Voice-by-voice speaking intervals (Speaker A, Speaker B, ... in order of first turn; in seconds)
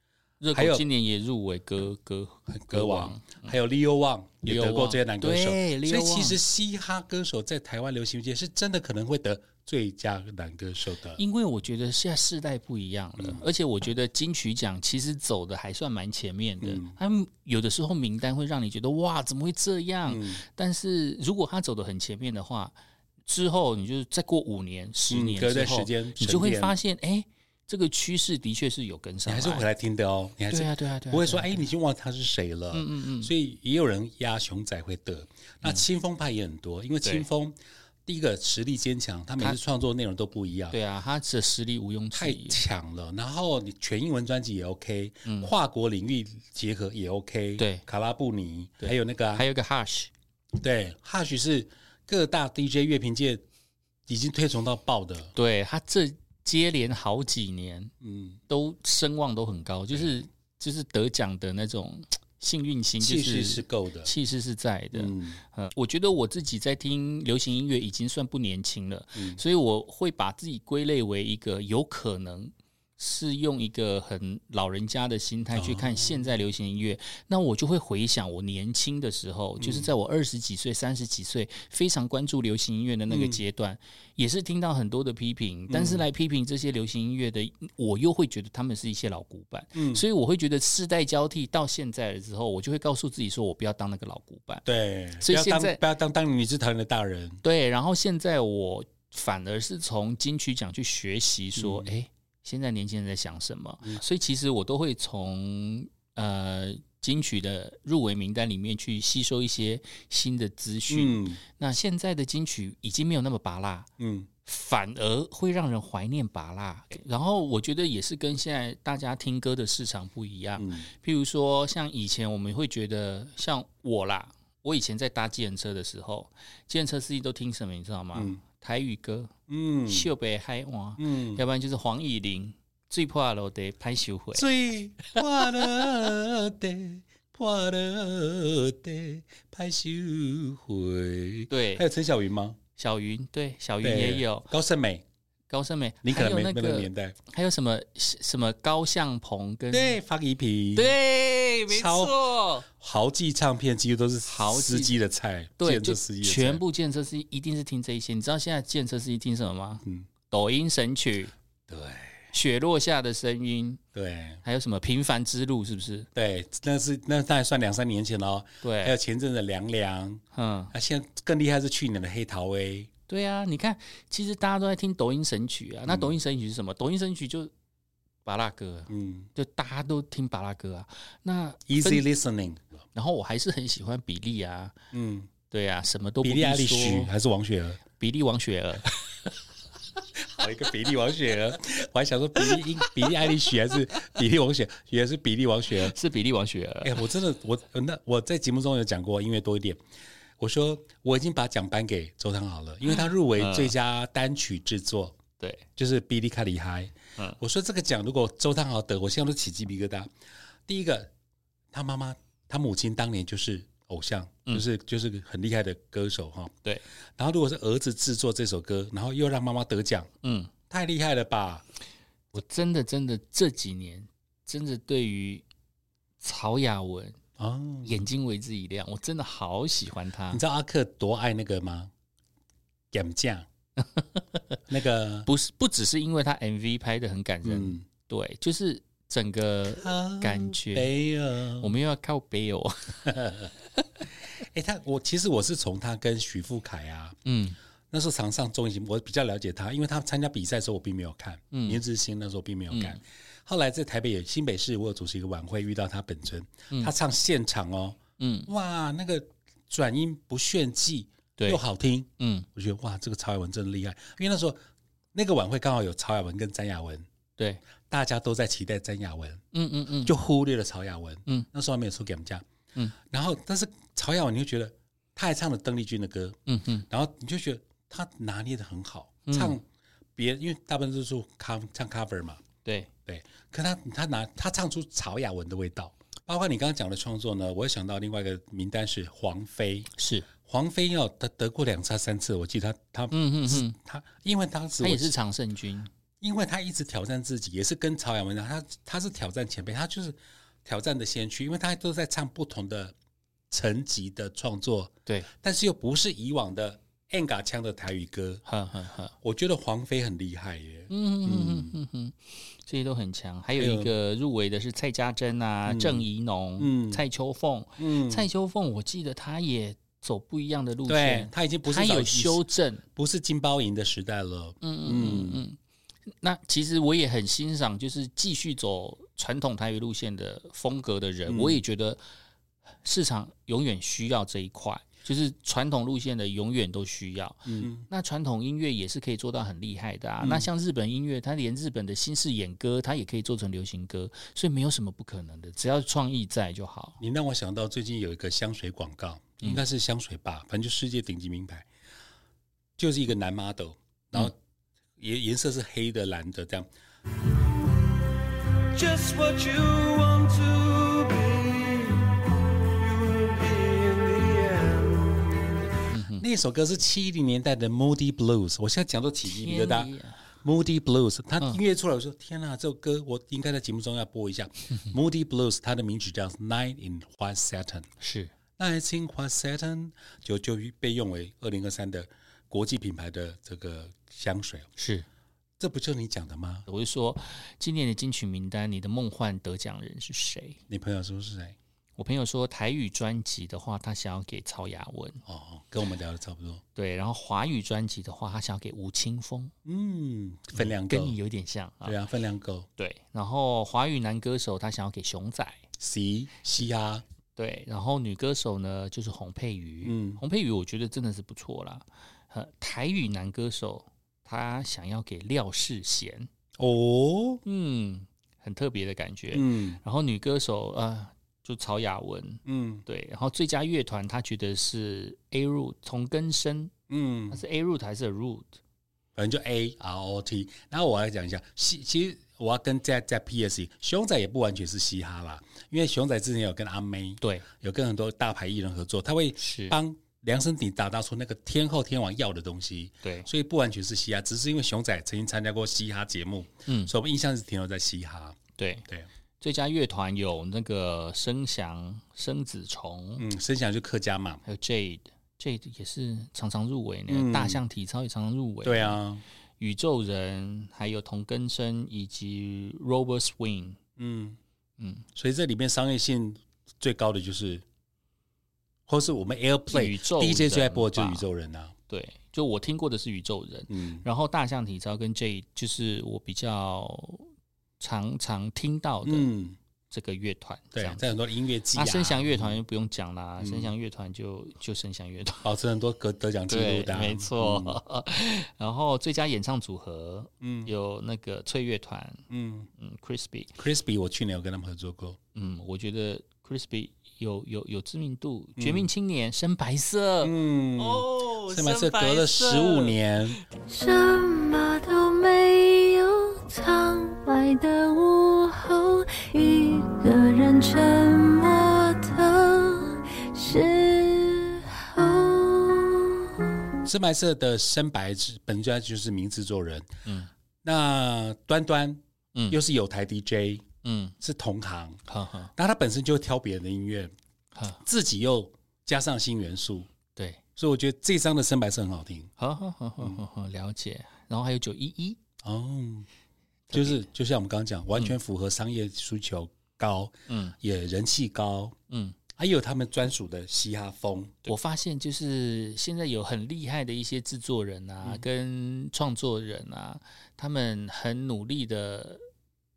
Speaker A: 0.4-3.5, 4.4-6.4, 11.2-22.7, 23.2-29.6, 30.5-31.7, 32.7-33.3, 40.7-42.6, 45.2-45.5, 47.6-47.8, 48.8-50.1, 55.3-57.9, 58.5-94.6, 95.2-95.8, 97.4-113.9, 114.4-129.3, 129.9-134.5, 141.5-141.8, 142.8-144.5, 145.5-150.0, 150.8-152.7, 154.2-155.0, 155.6-161.3, 162.3-163.8, 164.4-166.1, 168.6-168.9, 170.3-170.7, 173.1-177.5, 178.2-182.0, 182.9-184.7, 185.5-187.1, 188.0-189.0, 195.8-197.0, 203.4-203.7, 205.4-205.7, 220.2-220.5, 222.3-225.4, 226.2-227.2, 227.8-230.4, 235.2-240.9, 241.6-243.2, 247.2-247.6, 251.5-251.8, 252.7-253.0, 258.2-258.5, 262.2-262.5, 269.5-270.1, 276.5-276.9, 279.3-279.6, 282.6-282.9, 289.9-290.3, 293.1-293.7, 294.8-295.9, 305.1-305.3, 308.4-309.1, 310.9-322.8, 324.6-325.6, 326.2-332.0, 332.8-347.0, 365.9-366.2, 369.3-370.2, 378.0-378.3, 384.8-385.1, 386.7-390.6, 392.0-395.2, 396.8-399.5, 400.5-401.9, 402.8-405.6, 407.4-416.3, 417.4-426.7, 427.3-428.6, 437.2-437.4, 439.4-439.8, 446.7-446.9, 448.6-448.8, 449.4-453.2, 454.4-459.0, 459.6-463.8, 464.8-465.0, 469.7-471.2, 471.9-477.3, 477.8-479.3, 479.9-481.2, 481.7-485.5, 486.5-492.2, 492.8-493.6, 495.3-503.3, 520.0-520.3, 523.8-524.1, 525.1-525.5, 527.5-527.8, 530.1-530.4, 532.4-535.2, 536.7-537.0, 540.3-540.5, 541.9-542.1, 544.5-552.2
Speaker B: 0.5-0.8, 2.5-11.2, 13.2-13.4, 16.6-16.9, 20.1-20.4, 25.1-26.8, 29.2-40.8, 42.1-49.4, 50.5-53.4, 54.1-55.3, 58.0-58.4, 63.0-64.1, 64.9-65.4, 69.2-69.4, 75.5-76.3, 79.6-79.9, 83.1-83.4, 85.7-86.0, 89.7-90.0, 94.6-97.4, 101.5-101.9, 110.9-111.4, 114.0-114.3, 120.6-120.9, 128.1-128.4, 129.5-130.1, 131.0-131.4, 134.3-142.6, 143.8-145.0, 146.0-147.2, 149.7-150.9, 151.7-156.6, 161.7-162.3, 163.9-164.4, 166.1-172.9, 175.8-176.2, 178.9-179.3, 181.7-182.8, 184.9-185.3, 186.2-187.8, 190.2-195.9, 196.8-199.8, 200.4-205.2, 205.8-210.1, 210.7-211.1, 211.7-216.5, 217.2-220.1, 220.7-221.6, 227.4-228.0, 230.3-231.9, 232.9-233.5, 234.7-235.3, 237.4-237.8, 239.8-241.7, 243.1-243.5, 244.4-247.2, 247.9-264.6, 265.1-267.1, 267.9-269.4, 270.0-272.4, 273.0-279.6, 280.1-282.4, 283.1-289.9, 290.4-295.1, 296.2-302.9, 303.5-308.4, 309.2-311.7, 313.6-313.9, 315.6-316.1, 316.6-317.0, 317.8-318.3, 320.9-322.4, 322.9-325.4, 331.3-331.6, 337.5-337.9, 340.2-340.5, 347.0-351.7, 352.8-354.3, 355.0-356.7, 366.1-377.9, 378.6-384.7, 385.6-386.7, 390.7-391.6, 395.2-396.6, 399.6-401.2, 401.8-402.7, 405.8-407.0, 409.8-410.2, 416.6-417.4, 419.3-419.8, 422.4-422.8, 426.9-427.4, 429.1-449.1, 453.2-454.4, 457.1-457.6, 458.6-459.2, 464.0-464.4, 465.1-467.6, 468.9-471.7, 473.7-474.0, 479.0-479.6, 480.7-482.6, 483.4-483.7, 485.4-487.8, 490.4-490.7, 492.3-492.7, 493.6-495.2, 498.6-498.9, 500.2-503.3, 516.8-519.9, 520.6-523.6, 524.2-525.0, 525.5-527.1, 527.8-529.9, 530.5-532.3, 535.4-536.1, 536.7-541.8, 542.4-544.5
Speaker C: 358.7-362.2, 362.8-365.4
Speaker D: 503.7-516.3